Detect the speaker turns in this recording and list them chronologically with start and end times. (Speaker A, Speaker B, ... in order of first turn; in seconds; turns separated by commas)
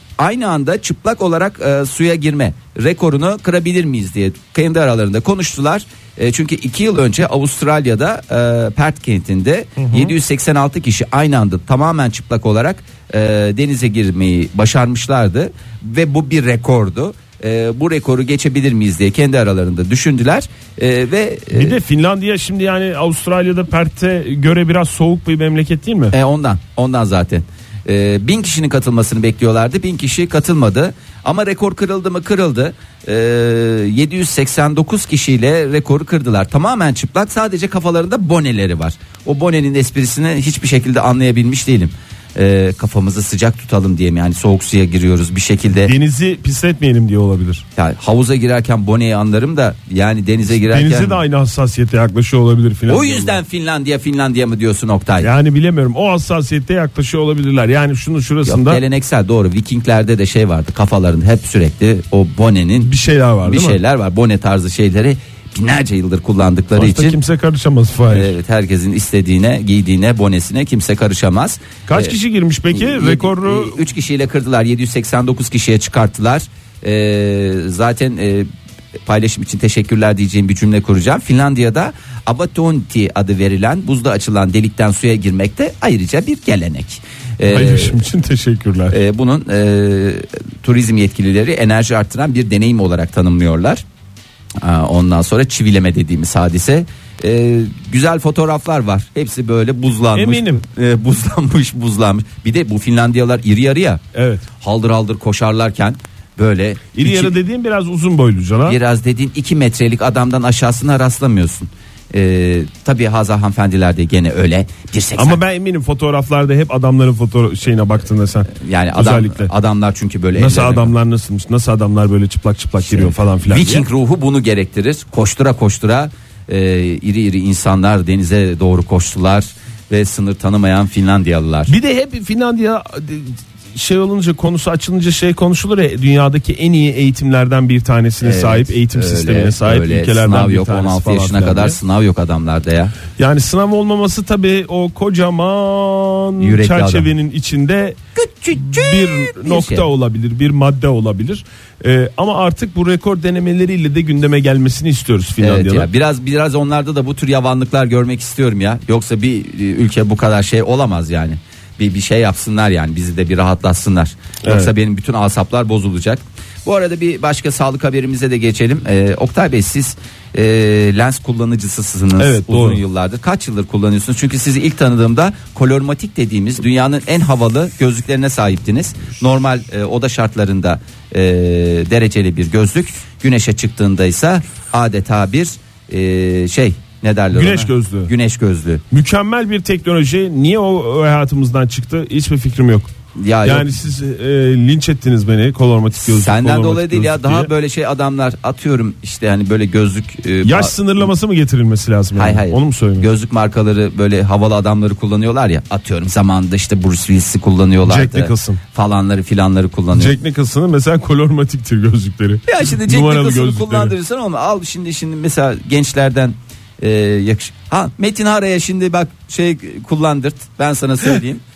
Speaker A: 0.2-21.8, Speaker B: 9.8-10.1, Speaker B: 21.5-26.1, Speaker A: 26.1-45.9, Speaker B: 45.8-47.6, Speaker A: 47.8-51.2, Speaker B: 50.5-53.4, Speaker A: 52.9-55.3, Speaker B: 55.2-58.8, Speaker A: 58.4-62.9, Speaker B: 62.8-63.8, Speaker A: 63.4-67.2, Speaker B: 66.8-68.3, Speaker A: 68.1-72.2, Speaker B: 71.9-73.8, Speaker A: 72.7-78.5, Speaker A: 79.0-88.0, Speaker B: 87.5-89.0, Speaker A: 88.9-93.8, Speaker A: 94.6-104.0, Speaker B: 100.1-100.6, Speaker B: 104.1-104.4, Speaker A: 104.6-107.3, Speaker B: 106.9-108.8, Speaker A: 108.7-115.4, Speaker B: 115.2-119.5, Speaker A: 118.5-120.9, Speaker B: 120.3-123.8, Speaker A: 122.9-131.7, Speaker B: 131.7-141.8, Speaker A: 138.2-142.9, Speaker B: 143.2-148.0, Speaker A: 146.4-147.1, Speaker A: 148.2-149.9, Speaker B: 148.5-155.9, Speaker A: 155.4-188.8, Speaker B: 164.4-164.7, Speaker B: 172.2-172.8, Speaker B: 187.3-188.1, Speaker B: 188.9-192.9, Speaker A: 193.2-193.7, Speaker B: 193.4-197.5, Speaker A: 196.0-201.1, Speaker B: 200.4-203.1, Speaker A: 202.1-210.2, Speaker B: 207.8-208.6, Speaker B: 209.9-213.9, Speaker A: 212.5-221.4